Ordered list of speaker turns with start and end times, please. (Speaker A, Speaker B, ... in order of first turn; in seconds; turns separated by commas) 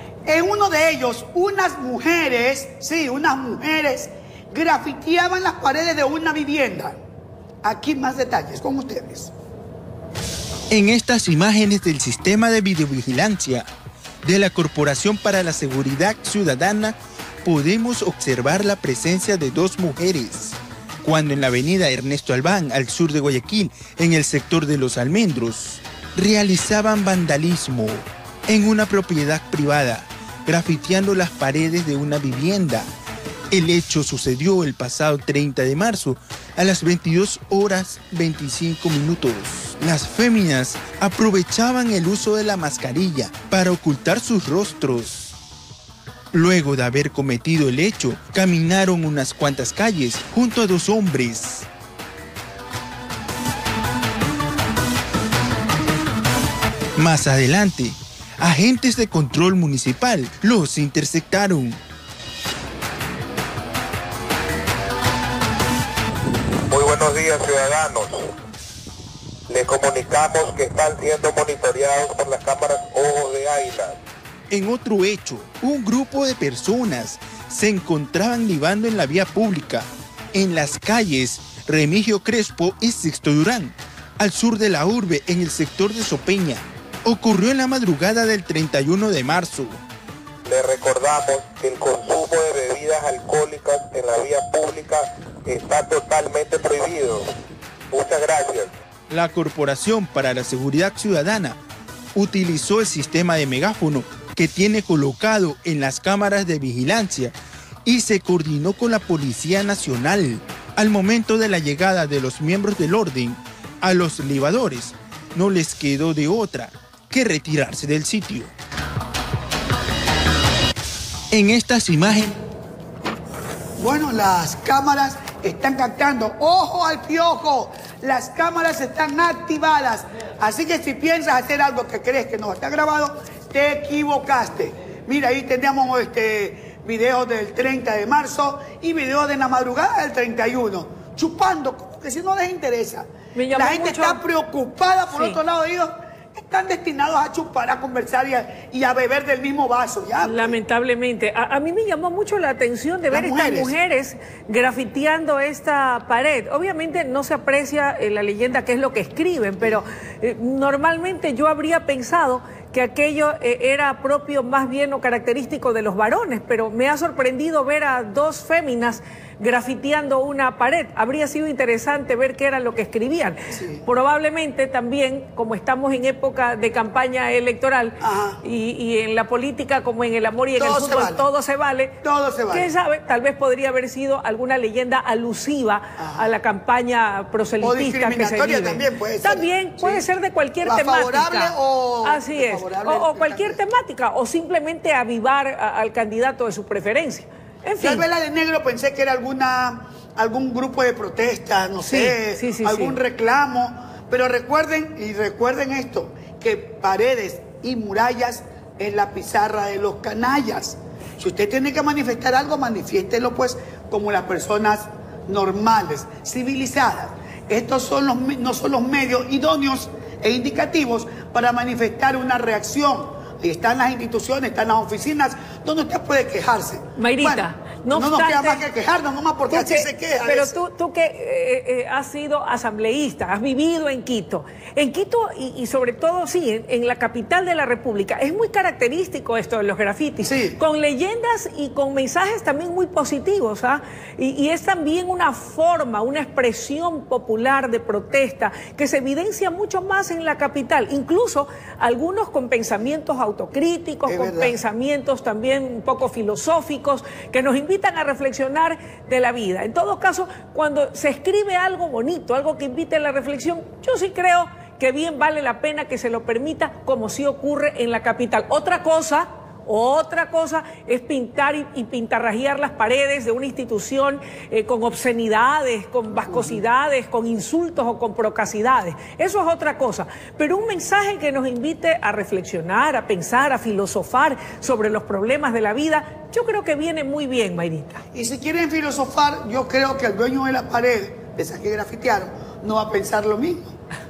Speaker A: 0.2-7.0, Speaker A: 7.6-9.3, Speaker B: 10.7-13.7, Speaker B: 14.2-32.9, Speaker B: 33.5-45.4, Speaker B: 46.3-51.7, Speaker B: 57.0-61.8, Speaker C: 66.7-68.3, Speaker C: 69.5-74.0, Speaker B: 74.5-89.8, Speaker C: 90.5-97.3, Speaker C: 97.9-98.8, Speaker B: 99.1-101.6, Speaker B: 102.1-118.5, Speaker B: 121.3-122.4, Speaker A: 123.8-150.6, Speaker D: 143.3-144.2, Speaker D: 145.1-145.4, Speaker D: 150.2-181.9, Speaker A: 153.1-153.8, Speaker A: 173.5-173.8, Speaker A: 178.0-178.4, Speaker A: 180.5-181.3, Speaker A: 182.0-182.7, Speaker D: 182.5-198.0, Speaker A: 186.0-186.3, Speaker A: 187.6-190.1, Speaker A: 190.6-193.6, Speaker A: 197.8-230.6, Speaker D: 201.8-203.0, Speaker D: 227.0-228.6, Speaker D: 229.5-288.0, Speaker A: 240.2-240.6, Speaker A: 254.1-254.6, Speaker A: 276.3-276.6, Speaker A: 288.1-293.7